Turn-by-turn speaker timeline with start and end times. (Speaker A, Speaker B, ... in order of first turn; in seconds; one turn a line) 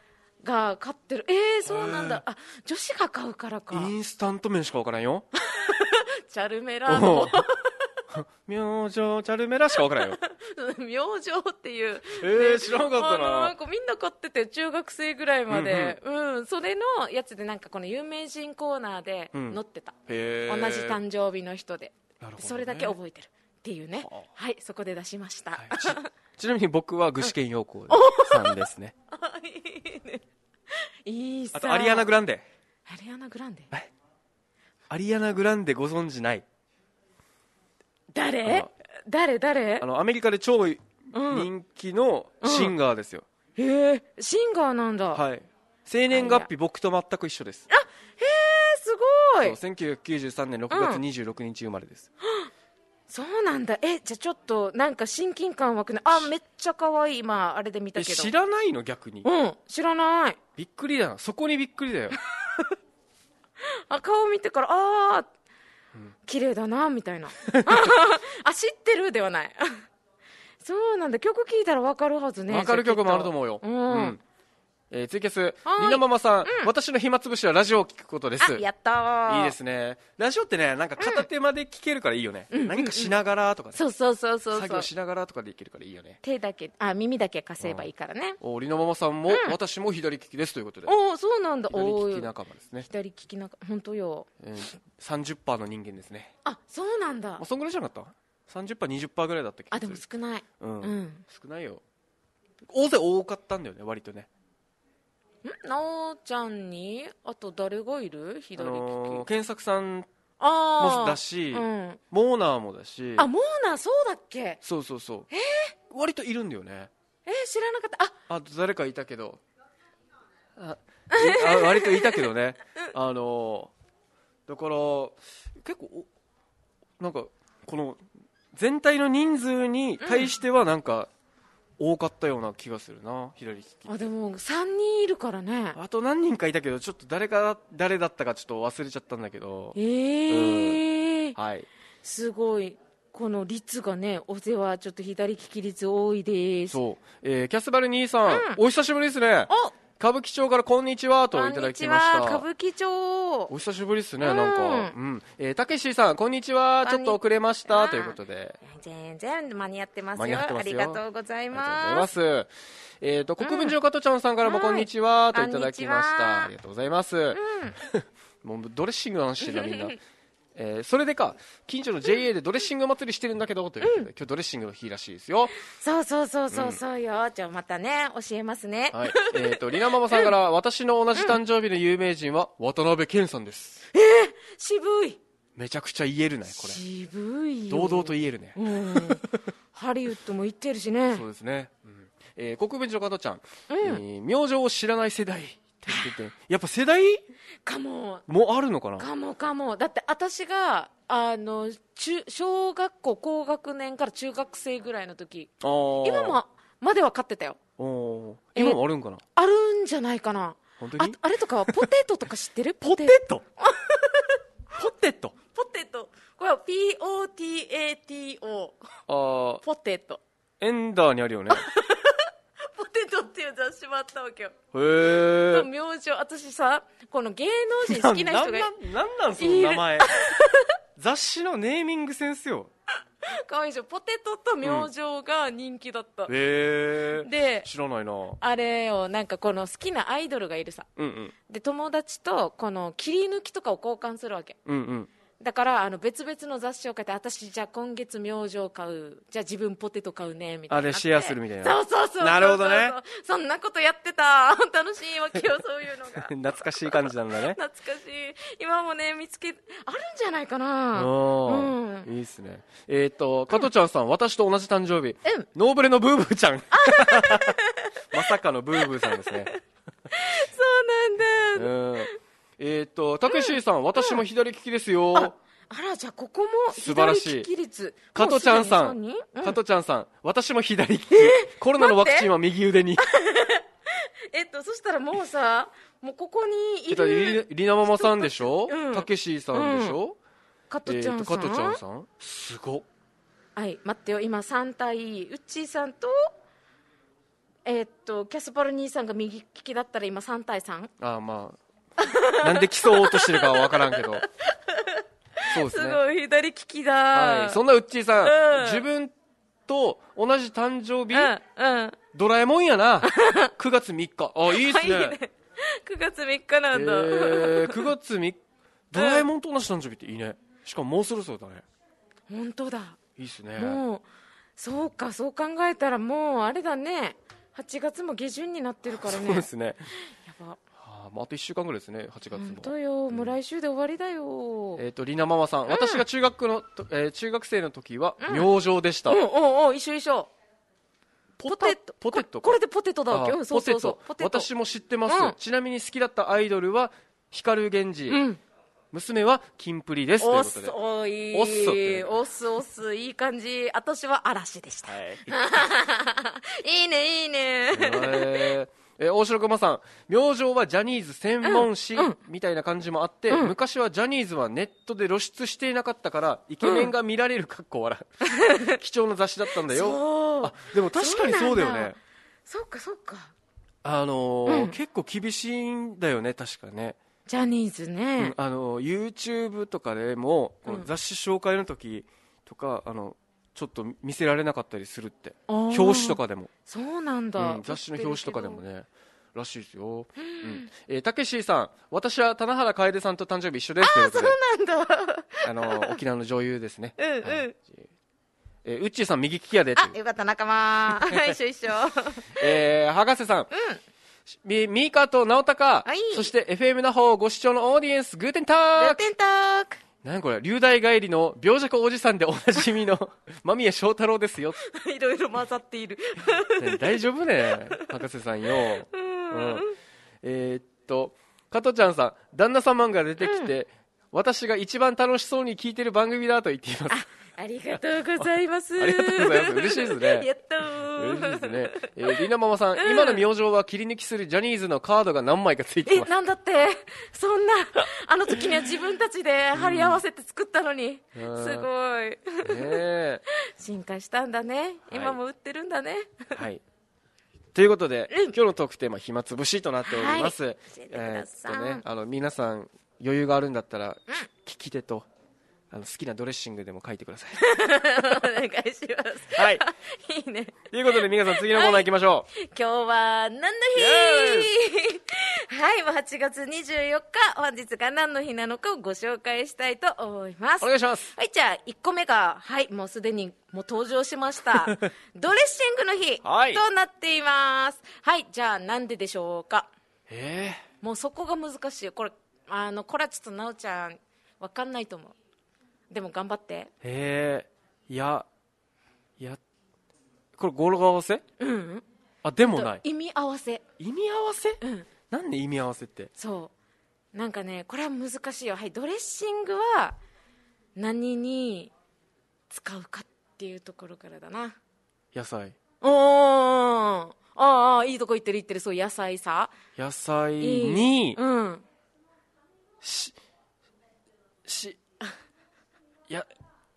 Speaker A: 0.4-3.9
Speaker B: 1.6-2.2
Speaker B: 3.7-5.2
Speaker A: 5.5-7.8
Speaker B: 6.9-7.4
Speaker B: 8.1-10.2
Speaker A: 9.9-19.9
Speaker B: 12.2-13.5
Speaker B: 15.5-16.0
Speaker B: 19.3-21.0
Speaker A: 20.5-26.1
Speaker B: 22.2-22.9
Speaker B: 25.6-28.9
Speaker A: 27.9-30.2
Speaker A: 31.1-32.1
Speaker B: 31.5-32.5
Speaker A: 32.9-33.7
Speaker B: 34.9-36.4
Speaker A: 38.1-39.9
Speaker B: 39.8-43.2
Speaker A: 41.1-41.5
Speaker A: 42.4-42.7
Speaker A: 43.5-45.2
Speaker B: 45.1-47.7
Speaker A: 46.1-46.5
Speaker A: 47.7-49.6
Speaker B: 49.4-52.1
Speaker A: 50.7-51.0
Speaker A: 52.2-52.5
Speaker A: 53.1-58.3
Speaker B: 58.0-59.3
Speaker A: 59.2-60.4
Speaker B: 60.6-62.2
Speaker A: 63.6-65.3
Speaker A: 66.3-69.8
Speaker B: 67.5-67.9
Speaker A: 70.6-74.2
Speaker B: 72.5-74.2
Speaker B: 74.9-78.6
Speaker A: 75.7-76.7
Speaker A: 78.4-79.5
Speaker B: 79.3-83.8
Speaker A: 81.0-81.2
Speaker A: 82.5-83.1
Speaker A: 83.8-84.9
Speaker B: 84.5-86.2
Speaker A: 86.2-88.4
Speaker B: 87.6-87.9
Speaker B: 88.4-90.9
Speaker A: 89.3-89.5
Speaker A: 90.9-92.3
Speaker B: 91.7-92.9
Speaker A: 92.9-94.3
Speaker B: 94.4-96.3
Speaker A: 96.4-97.4
Speaker B: 97.4-100.0
Speaker A: 99.7-101.2
Speaker B: 100.6-101.8
Speaker B: 102.7-104.3
Speaker A: 105.4-109.3
Speaker B: 108.6-110.1
Speaker A: 110.4-112.0
Speaker B: 110.8-113.3
Speaker A: 113.2-114.6
Speaker B: 114.6-115.3
Speaker A: 115.3-115.7
Speaker B: 115.9-116.9
Speaker A: 117.2-118.2
Speaker B: 118.3-119.4
Speaker B: 120.5-123.7
Speaker A: 121.1-122.3
Speaker B: 124.5-126.1
Speaker B: 127.0-128.0
Speaker B: 128.5-131.1
Speaker A: 130.0-130.3
Speaker B: 131.8-134.1
Speaker A: 133.9-135.8
Speaker B: 135.8-139.8
Speaker A: 139.8-141.4
Speaker B: 140.3-140.8
Speaker B: 141.4-141.7
Speaker A: 142.0-146.8
Speaker B: 146.7-152.4
Speaker A: 148.3-148.6
Speaker A: 149.5-149.8
Speaker A: 151.3-153.5
Speaker B: 153.5-158.6
Speaker A: 154.2-154.9
Speaker A: 156.8-162.1
Speaker B: 160.2-169.9
Speaker A: 163.4-163.8
Speaker A: 164.4-166.5
Speaker A: 167.3-167.8
Speaker A: 169.5-169.9
Speaker B: 170.5-175.5
Speaker A: 173.8-174.1
Speaker A: 175.6-180.3
Speaker B: 176.5-176.8
Speaker B: 178.9-183.8
Speaker A: 183.9-185.2
Speaker B: 185.6-186.8
Speaker A: 186.5-189.2
Speaker B: 187.7-189.4
Speaker A: 189.7-191.2
Speaker B: 191.1-197.2
Speaker A: 193.7-194.0
Speaker A: 197.6-198.2
Speaker B: 198.3-199.1
Speaker A: 199.0-207.6
Speaker B: 205.6-206.4
Speaker B: 207.8-209.2
Speaker A: 209.4-214.4
Speaker B: 210.8-211.9
Speaker B: 212.8-213.4
Speaker B: 214.7-215.3
Speaker A: 215.5-218.8
Speaker B: 219.1-219.6
Speaker A: 219.6-220.2
Speaker B: 220.6-221.7
Speaker A: 221.5-224.5
Speaker B: 224.7-225.7
Speaker A: 225.3-228.7
Speaker B: 227.9-230.1
Speaker A: 229.4-230.7
Speaker B: 231.0-232.7
Speaker A: 233.2-236.3
Speaker B: 234.6-234.9
Speaker B: 236.3-238.4
Speaker A: 237.2-237.7
Speaker A: 238.4-240.9
Speaker B: 241.0-241.3
Speaker A: 241.5-244.6
Speaker B: 244.7-245.1
Speaker A: 245.4-262.1
Speaker B: 250.7-252.9
Speaker B: 256.2-257.6
Speaker B: 260.9-267.6
Speaker A: 266.7-267.9
Speaker B: 268.1-269.5
Speaker A: 268.8-269.6
Speaker A: 270.1-272.1
Speaker B: 271.5-275.4
Speaker A: 273.3-274.2
Speaker A: 275.1-279.6
Speaker B: 276.7-277.5
Speaker B: 278.1-283.0
Speaker A: 281.1-282.3
Speaker A: 283.0-290.0
Speaker B: 286.9-290.2
Speaker A: 290.7-291.8
Speaker B: 290.9-292.9
Speaker A: 293.6-296.3
Speaker A: 297.6-300.9
Speaker B: 301.0-301.6
Speaker A: 302.0-307.6
Speaker B: 302.3-304.2
Speaker B: 305.5-306.0
Speaker B: 307.1-309.1
Speaker A: 308.2-308.8
Speaker B: 309.7-311.3
Speaker A: 311.1-312.0
Speaker B: 312.1-315.2
Speaker A: 313.0-313.5
Speaker A: 314.5-317.9
Speaker B: 316.7-318.4
Speaker B: 318.9-321.6
Speaker A: 318.9-319.2
Speaker A: 322.3-323.0
Speaker B: 323.2-323.8
Speaker A: 323.6-324.0
Speaker A: 324.6-329.4
Speaker B: 328.9-329.9
Speaker A: 330.1-330.6
Speaker B: 330.8-333.3
Speaker A: 332.3-334.8
Speaker B: 334.8-339.2
Speaker A: 335.7-336.0
Speaker A: 338.2-338.5
Speaker A: 339.1-340.3
Speaker B: 341.4-348.2
Speaker A: 341.4-344.5
Speaker A: 345.1-345.4
Speaker A: 348.1-348.4
Speaker B: 348.9-350.8
Speaker A: 350.2-358.5
Speaker B: 351.3-352.1
Speaker B: 354.9-355.6
Speaker B: 357.7-372.0
Speaker A: 361.4-362.2
Speaker A: 363.3-363.5
Speaker A: 366.6-366.9
Speaker A: 368.3-368.8
Speaker A: 369.6-371.9
Speaker A: 372.4-373.3
Speaker B: 373.8-377.0
Speaker A: 374.4-374.8
Speaker A: 377.3-378.4
Speaker B: 378.2-386.5
Speaker A: 385.5-388.6
Speaker B: 387.4-394.4
Speaker A: 390.2-390.7
Speaker A: 393.8-396.0
Speaker B: 395.4-397.9
Speaker A: 397.0-397.6
Speaker B: 398.6-399.9
Speaker A: 399.8-402.4
Speaker B: 401.1-401.4
Speaker B: 402.4-403.5
Speaker A: 403.5-403.8
Speaker B: 404.3-409.1
Speaker A: 405.9-406.3
Speaker A: 408.8-409.8
Speaker B: 410.0-414.6
Speaker A: 414.6-417.9
Speaker B: 416.6-419.6
Speaker A: 418.9-419.7
Speaker B: 420.2-427.0
Speaker A: 423.2-423.5
Speaker A: 426.9-432.2
Speaker B: 428.8-430.3
Speaker B: 430.9-436.1
Speaker A: 432.8-433.2
Speaker A: 435.9-442.8
Speaker B: 439.6-440.0
Speaker B: 441.1-441.7
Speaker B: 442.4-443.2
Speaker A: 443.5-446.4
Speaker B: 444.9-445.2
Speaker B: 446.3-446.6
Speaker B: 447.5-455.1
Speaker A: 449.9-451.8
Speaker B: 455.7-457.4
Speaker A: 457.4-479.7
Speaker B: 459.4-459.6
Speaker B: 460.7-462.3
Speaker B: 463.7-464.5
Speaker B: 470.6-471.1
Speaker B: 476.2-476.6
Speaker B: 480.1-480.6
Speaker A: 480.8-485.1
Speaker A: 485.9-486.7
Speaker B: 486.8-488.3
Speaker B: 490.4-491.2
Speaker A: 491.4-491.9
Speaker B: 492.2-492.8
Speaker A: 492.4-493.6
Speaker B: 493.8-496.1
Speaker A: 494.6-494.9
Speaker A: 496.2-496.5
Speaker A: 497.1-500.0
Speaker A: 500.8-501.7
Speaker A: 502.5-504.6
Speaker B: 505.1-505.6
Speaker A: 505.8-509.6
Speaker B: 509.8-511.2
Speaker A: 510.4-511.6
Speaker B: 512.8-513.1
Speaker B: 514.4-514.8